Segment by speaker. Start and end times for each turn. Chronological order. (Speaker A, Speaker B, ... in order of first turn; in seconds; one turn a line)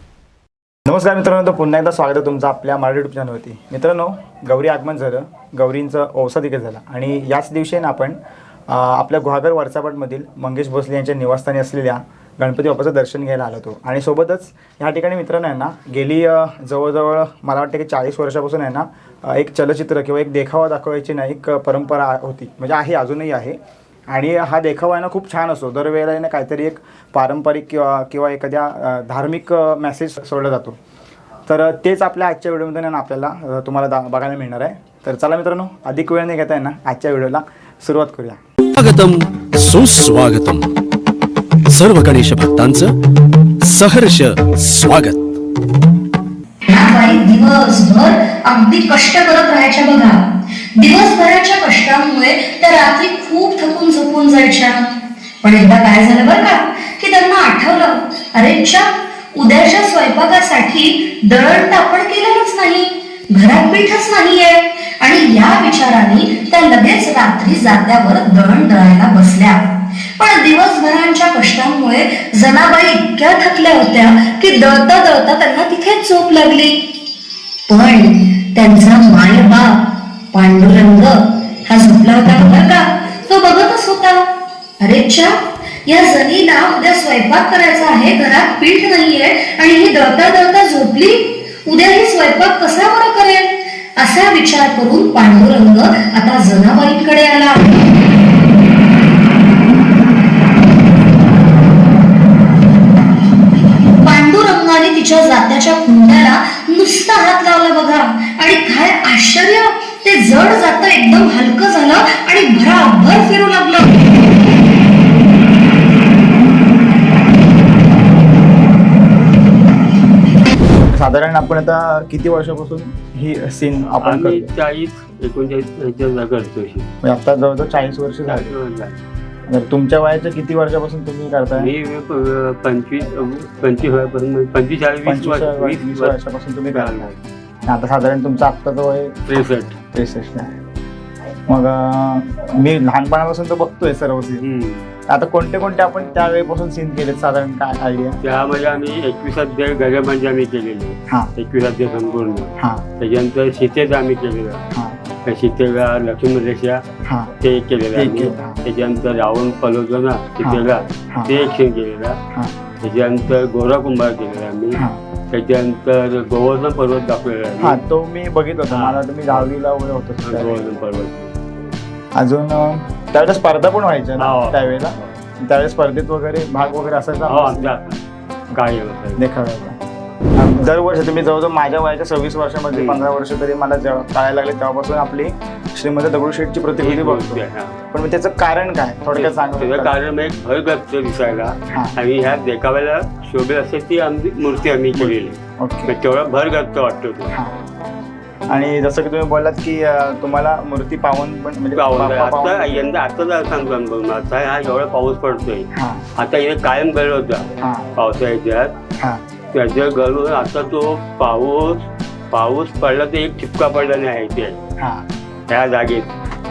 Speaker A: 0.9-8.2
Speaker A: 8.7-23.6
Speaker A: 24.1-30.8
Speaker A: 31.5-38.4
Speaker B: 38.7-40.7
Speaker B: 41.7-43.0
Speaker B: 43.6-45.3
Speaker C: 46.7-50.2
Speaker C: 50.8-54.9
Speaker C: 55.4-76.9
Speaker C: 77.7-84.3
Speaker C: 84.8-97.8
Speaker C: 104.0-114.0
Speaker A: 120.9-124.5
Speaker D: 124.0-126.9
Speaker A: 127.0-128.5
Speaker D: 128.3-129.0
Speaker A: 129.5-131.7
Speaker D: 131.6-136.1
Speaker A: 135.1-137.1
Speaker D: 136.7-137.2
Speaker A: 137.7-139.2
Speaker D: 139.3-139.8
Speaker A: 139.9-140.5
Speaker A: 141.5-144.4
Speaker D: 144.4-144.9
Speaker A: 145.1-148.2
Speaker D: 148.2-154.6
Speaker A: 152.6-152.8
Speaker D: 155.3-156.8
Speaker A: 157.1-157.3
Speaker D: 157.4-162.2
Speaker A: 157.9-158.6
Speaker A: 160.4-161.4
Speaker D: 162.8-167.8
Speaker A: 167.6-170.6
Speaker D: 168.7-169.5
Speaker D: 170.2-171.4
Speaker A: 172.2-177.8
Speaker D: 174.2-175.2
Speaker D: 177.3-179.2
Speaker A: 179.2-179.8
Speaker A: 180.3-189.9
Speaker D: 182.7-183.0
Speaker D: 186.8-187.8
Speaker D: 189.1-197.3
Speaker A: 191.5-192.0
Speaker A: 195.0-195.9
Speaker A: 198.5-202.9
Speaker D: 201.8-208.8
Speaker A: 205.7-206.1
Speaker A: 207.6-207.9
Speaker D: 209.5-214.6
Speaker A: 214.8-215.1
Speaker D: 215.5-216.2